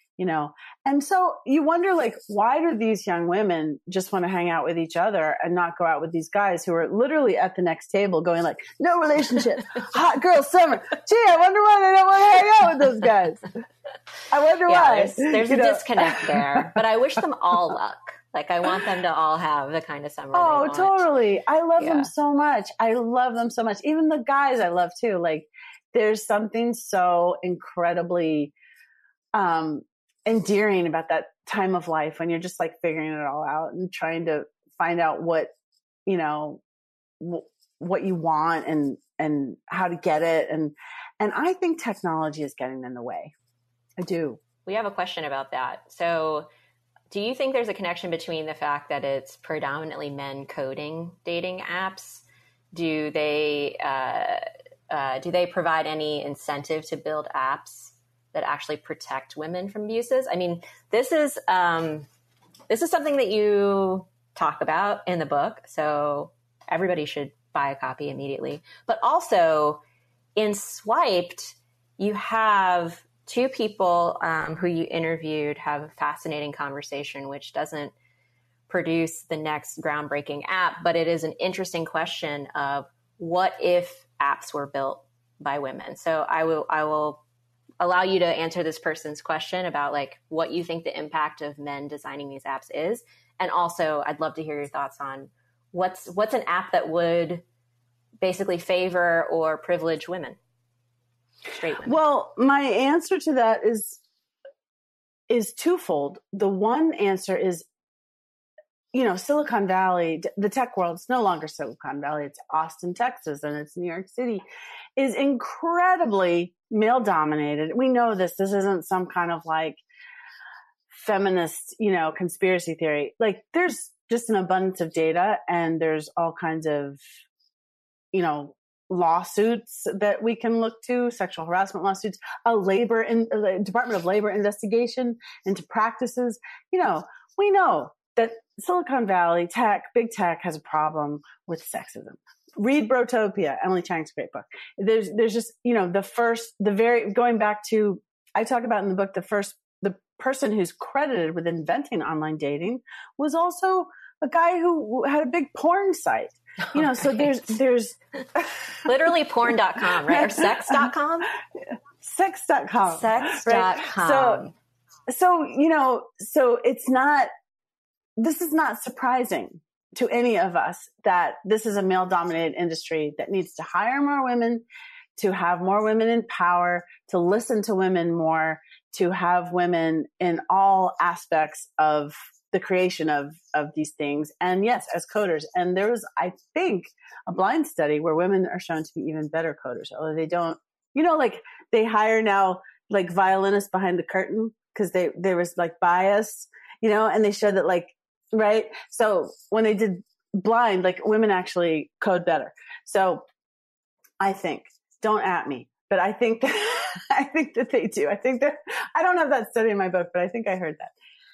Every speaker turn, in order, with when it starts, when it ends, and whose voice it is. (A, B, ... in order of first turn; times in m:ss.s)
0:00.2-0:13.4 A
0:14.3-0:16.8 A
0:14.7-0:21.1 B
0:20.3-0:28.5 A
0:21.8-0:22.1 B
0:29.3-0:35.5 A
0:36.0-0:36.6 A
0:37.2-0:43.3 A
0:44.0-0:44.4 A
0:44.7-0:46.5 B
0:47.1-1:02.1 B
1:02.7-1:09.8 B
1:10.4-1:17.9 B
1:18.7-1:27.2 B
1:27.8-1:37.4 B
1:38.2-1:40.4 B
1:41.5-1:42.0 B
1:41.8-1:44.0 A
1:45.3-1:47.7 A
1:48.9-1:54.4 A
1:55.0-1:59.8 A
2:00.9-2:07.0 A
2:08.1-2:38.9 A
2:38.8-2:41.3 B
2:40.0-2:40.9 A
2:42.0-2:44.4 A
2:42.9-2:44.5 B
2:45.1-2:47.3 A
2:48.2-2:54.6 A
2:55.2-3:23.2 A
3:24.2-3:30.9 A